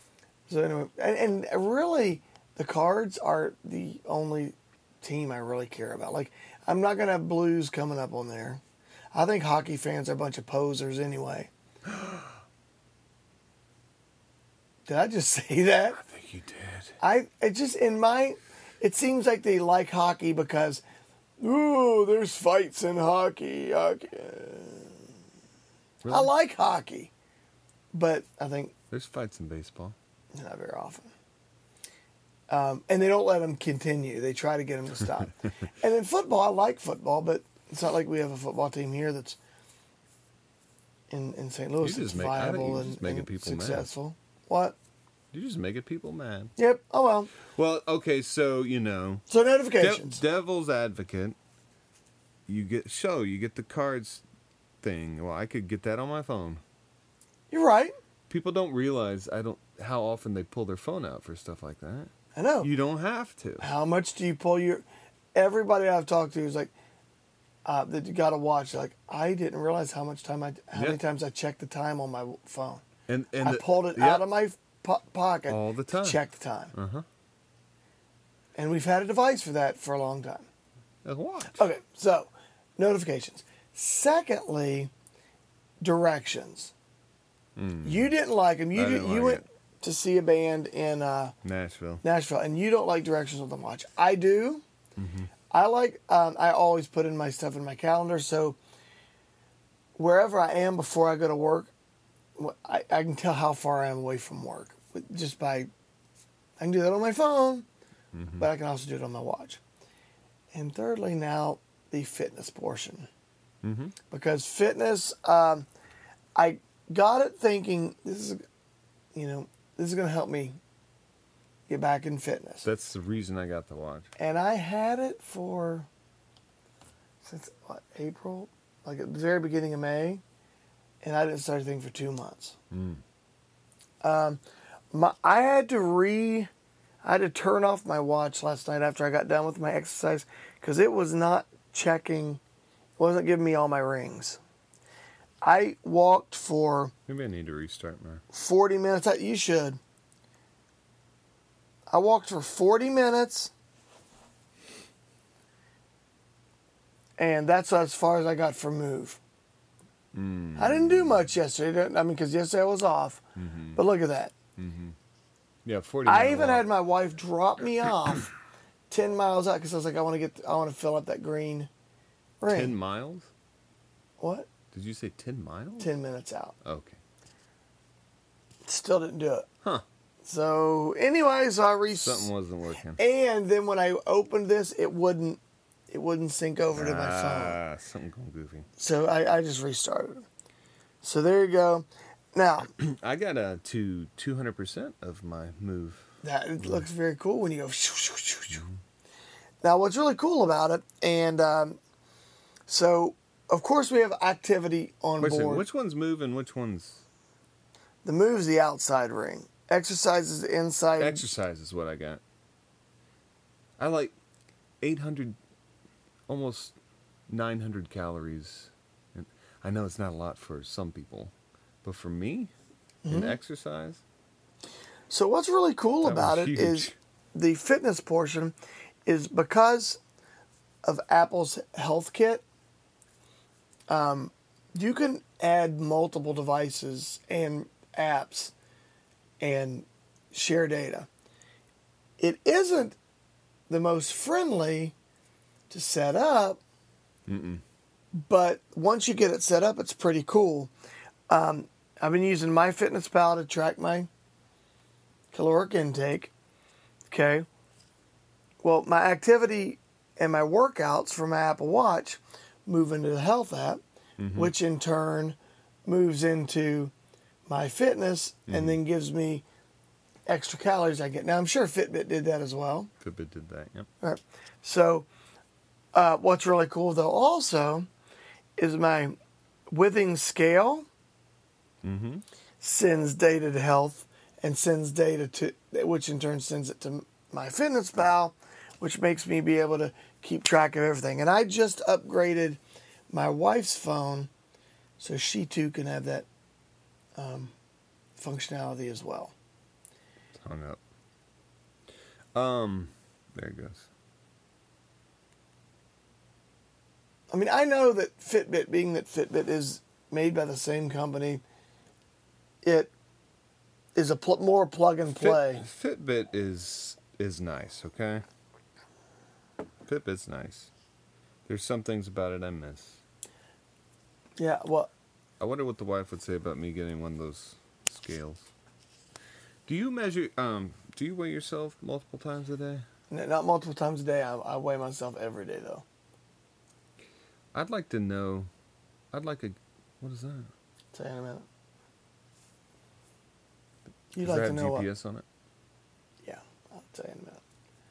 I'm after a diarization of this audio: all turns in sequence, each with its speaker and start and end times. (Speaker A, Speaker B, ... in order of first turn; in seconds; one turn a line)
Speaker A: 0.5-8.6
Speaker A: 9.1-11.5
Speaker B: 11.8-12.4
Speaker A: 14.9-16.0
Speaker B: 16.0-17.0
Speaker A: 17.0-20.8
Speaker A: 21.4-25.0
Speaker B: 26.0-26.3
Speaker A: 26.1-27.1
Speaker A: 27.9-28.7
Speaker B: 28.9-29.9
Speaker A: 30.3-31.1
Speaker A: 32.5-39.4
Speaker A: 41.1-44.8
Speaker B: 41.8-43.9
Speaker B: 45.3-46.5
Speaker A: 46.6-47.3
Speaker B: 47.4-49.2
Speaker A: 49.3-50.2
Speaker B: 49.8-51.4
Speaker B: 52.5-54.2
Speaker B: 54.8-56.6
Speaker A: 57.5-57.9
Speaker B: 58.3-63.6
Speaker A: 62.3-62.7
Speaker A: 63.6-66.7
Speaker A: 67.6-72.8
Speaker B: 70.7-71.0
Speaker B: 73.1-74.2
Speaker A: 73.4-76.7
Speaker B: 75.5-76.2
Speaker B: 76.7-77.0
Speaker A: 78.5-80.5
Speaker B: 81.0-81.6
Speaker A: 81.5-84.9
Speaker A: 85.8-86.7
Speaker B: 87.5-88.1
Speaker A: 87.8-91.3
Speaker B: 88.7-89.4
Speaker B: 91.4-92.0
Speaker A: 92.0-94.6
Speaker B: 95.0-95.3
Speaker A: 95.5-98.6
Speaker A: 100.0-101.7
Speaker A: 102.4-105.7
Speaker A: 106.6-107.7
Speaker B: 108.1-108.5
Speaker A: 108.4-109.6
Speaker A: 110.5-113.1
Speaker B: 113.6-114.0
Speaker A: 114.1-115.7
Speaker A: 116.3-118.4
Speaker A: 119.1-120.6
Speaker A: 121.7-122.7
Speaker B: 122.6-124.1
Speaker A: 124.2-125.9
Speaker A: 127.2-130.2
Speaker A: 131.0-132.6
Speaker B: 132.7-133.0
Speaker A: 134.0-134.4
Speaker A: 134.9-136.5
Speaker A: 137.0-142.4
Speaker A: 143.0-144.4
Speaker A: 145.4-146.9
Speaker B: 147.1-148.2
Speaker A: 148.3-149.8
Speaker A: 151.9-153.5
Speaker A: 157.2-159.2
Speaker B: 160.1-161.2
Speaker A: 160.6-163.2
Speaker B: 163.3-163.8
Speaker A: 163.7-164.3
Speaker B: 164.6-165.0
Speaker B: 165.6-166.7
Speaker A: 166.1-168.3
Speaker A: 168.9-171.7
Speaker A: 172.4-172.7
Speaker B: 172.4-173.3
Speaker A: 174.2-174.5
Speaker B: 174.7-175.9
Speaker A: 175.8-176.6
Speaker B: 176.6-177.0
Speaker A: 178.6-179.5
Speaker A: 180.2-182.3
Speaker B: 181.9-183.0
Speaker A: 183.0-187.6
Speaker B: 186.7-188.7
Speaker A: 188.8-190.2
Speaker A: 191.0-192.7
Speaker B: 192.6-196.1
Speaker A: 196.2-198.7
Speaker B: 196.6-196.8
Speaker A: 199.6-201.8
Speaker A: 202.7-205.7
Speaker B: 205.2-207.0
Speaker A: 208.0-211.3
Speaker B: 211.0-212.2
Speaker B: 213.8-214.1
Speaker B: 214.8-215.4
Speaker B: 216.3-216.8
Speaker B: 217.3-221.3
Speaker B: 221.8-222.5
Speaker A: 223.0-223.4
Speaker B: 223.1-224.0
Speaker A: 225.1-228.5
Speaker B: 226.0-226.9
Speaker A: 229.1-230.0
Speaker A: 230.8-232.4
Speaker A: 233.9-238.5
Speaker A: 239.4-241.1
Speaker A: 242.2-243.0
Speaker A: 243.7-244.9
Speaker A: 245.7-246.6
Speaker B: 247.3-247.6
Speaker A: 248.1-250.7
Speaker A: 251.3-254.1
Speaker A: 255.3-256.3
Speaker A: 257.1-257.5
Speaker A: 258.6-263.8
Speaker B: 264.2-264.5
Speaker A: 264.3-266.9
Speaker A: 267.5-269.4
Speaker B: 268.5-268.8
Speaker A: 270.3-272.9
Speaker B: 273.0-273.9
Speaker A: 274.0-275.1
Speaker A: 275.9-277.9
Speaker A: 278.6-279.1
Speaker A: 279.7-280.9
Speaker B: 281.8-282.2
Speaker A: 282.6-294.3
Speaker A: 295.0-296.3
Speaker A: 297.2-297.5
Speaker A: 298.2-299.3
Speaker B: 300.4-300.8
Speaker B: 302.3-303.9
Speaker A: 307.3-311.4
Speaker A: 312.6-312.9
Speaker A: 313.9-315.6
Speaker B: 315.2-318.2
Speaker B: 319.8-320.7
Speaker B: 321.4-323.0
Speaker A: 324.4-324.9
Speaker B: 325.4-328.5
Speaker B: 329.6-332.9
Speaker A: 333.1-335.8
Speaker B: 337.5-338.5
Speaker B: 339.1-340.5
Speaker A: 340.9-341.5
Speaker A: 344.1-344.9
Speaker B: 344.2-345.2
Speaker A: 346.2-347.4